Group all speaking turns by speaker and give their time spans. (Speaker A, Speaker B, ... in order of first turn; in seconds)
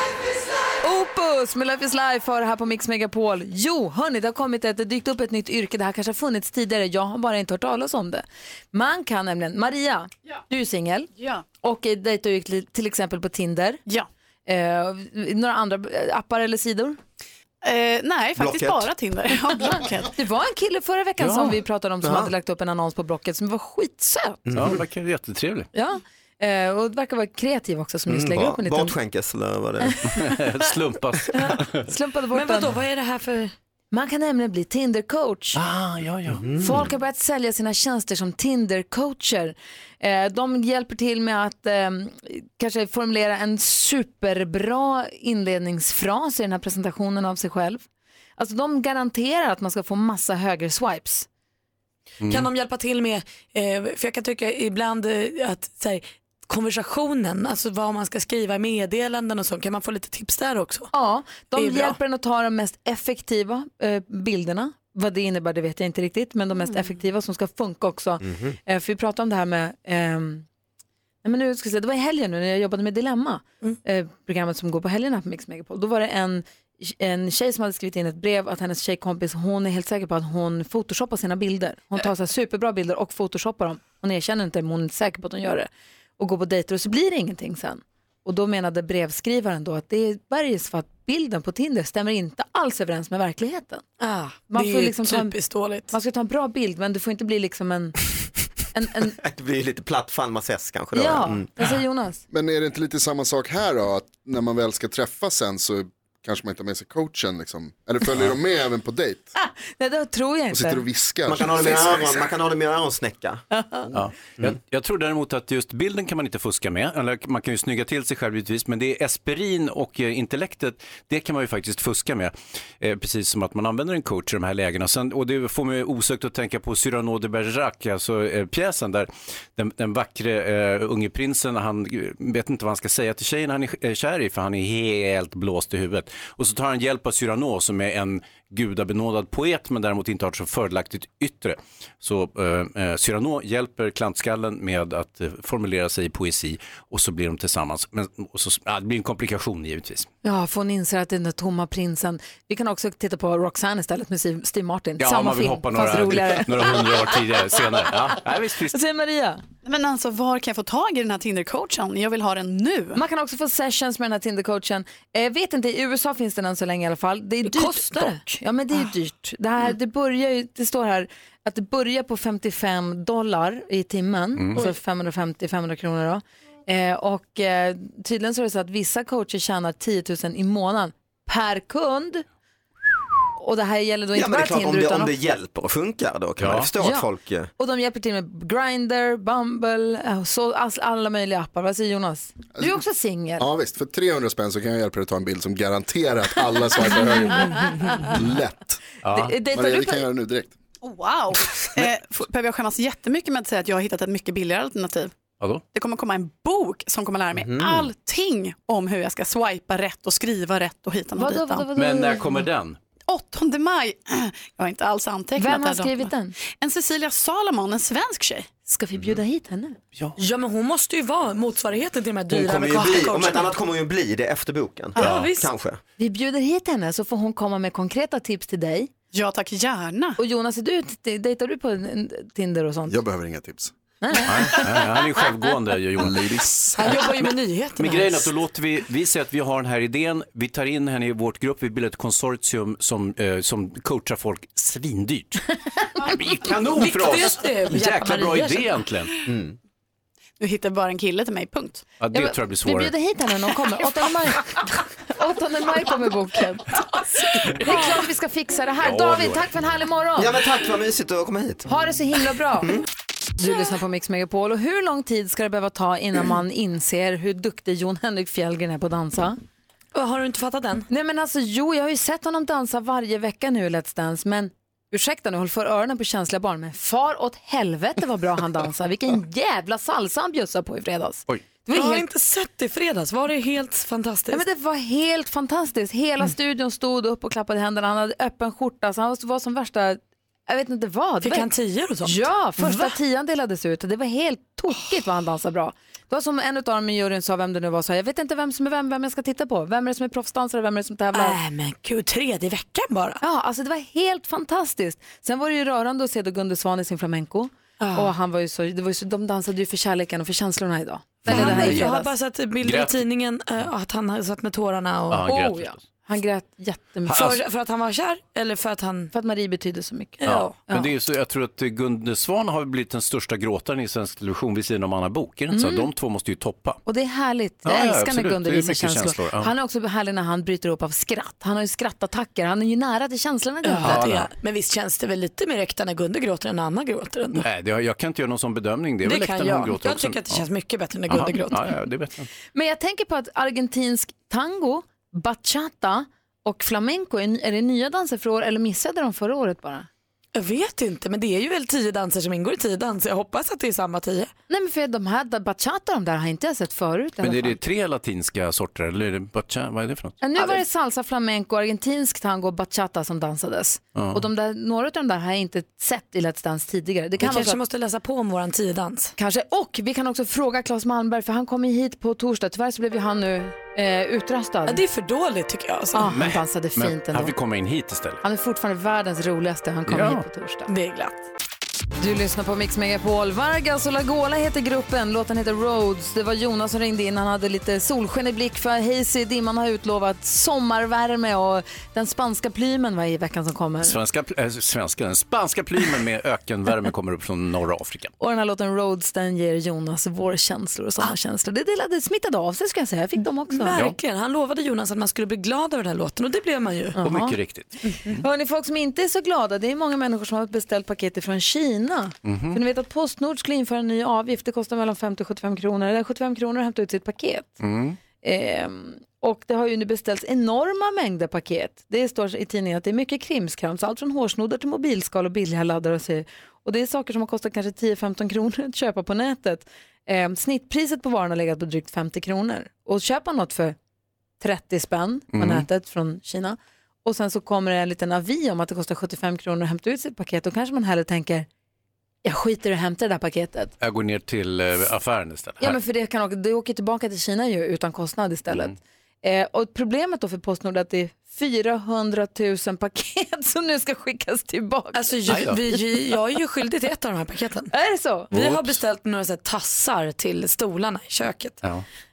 Speaker A: 0.8-11.1, 11.6-13.8, 14.4-17.0, 19.6-24.5, 25.7-29.0, 29.9-30.2, 31.9-32.7, 33.9-35.6, 36.6-47.8, 48.4-51.3, 60.9-70.5, 71.2-93.8, 94.5-95.3, 95.9-98.0, 98.7-99.2, 100.9-102.2, 109.4-110.8, 113.5-113.9, 150.2-157.0, 158.7-159.4, 162.9-182.2, 183.4-185.2, 186.8-193.4, 199.1-200.0, 211.2-212.5, 215.4-216.3, 218.7-219.8, 226.0-228.9, 230.2-232.9, 234.0-235.2, 252.1-260.4, 261.6-262.8, 263.4-269.4, 270.9-282.1, 284.3-291.5, 292.0-301.4, 303.2-312.1, 315.2-317.4, 319.1-320.9, 325.5-325.9, 326.9-334.0, 342.5-349.9, 354.5-357.6, 360.2-367.6, 369.2-374.8, 375.9-377.3, 378.2-380.7, 382.0-394.0, 398.2-403.8, 406.9-407.4, 407.9-417.6, 418.2-433.8, 434.4-441.5, 442.2-443.7, 445.6-455.2, 457.7-458.3
Speaker B: 11.2-11.4, 17.6-20.1, 159.6-163.0, 200.8-205.1, 205.7-211.7, 213.1-218.5, 229.1-230.2, 250.4-251.9
Speaker C: 18.4-18.9, 22.0-22.3, 24.5-24.8, 28.1-30.2, 36.3-36.8, 68.2-68.5, 99.2-101.5, 111.3-113.4, 184.1-187.5, 207.3-207.9, 222.3-225.8, 249.2-249.6, 260.1-261.6
Speaker D: 21.2-21.6, 24.6-25.7, 30.0-31.9, 35.5-36.4, 52.2-52.5, 113.9-150.1, 155.0-158.8, 174.3-174.6, 186.4-186.7, 199.0-199.3, 211.7-212.8, 225.0-225.3, 234.2-236.2, 237.8-245.4, 246.0-249.1, 252.0-252.9, 258.8-259.5, 311.2-311.9, 312.6-313.1, 315.1-315.8, 317.1-317.4, 320.2-326.8, 327.6-329.5, 333.8-334.3, 337.3-340.4, 341.1-342.3, 357.2-360.2, 363.9-364.2, 376.1-378.2, 379.9-380.2, 393.8-398.1, 403.7-404.0, 407.0-408.2, 412.2-412.6, 417.6-418.0, 435.3-435.6, 443.8-445.8, 455.3-455.6, 458.3-458.8
Speaker E: 32.3-33.5, 52.2-60.9, 61.5-62.0, 94.0-95.9, 167.4-168.2, 220.2-223.5, 225.0-225.5, 236.8-238.3, 246.7-248.9, 269.9-270.9, 281.7-284.4, 291.2-293.0, 301.1-303.2, 307.8-308.1, 311.3-315.3, 317.1-319.1, 320.2-320.5, 333.6-337.4, 339.0-341.8, 350.3-354.3, 367.2-369.1, 374.7-376.1, 380.7-381.2, 403.5-407.0, 454.9-457.7, 458.3-461.6
Speaker F: 102.3-109.3, 110.5-112.2, 193.4-198.8, 199.5-200.5, 232.9-233.7, 236.0-237.0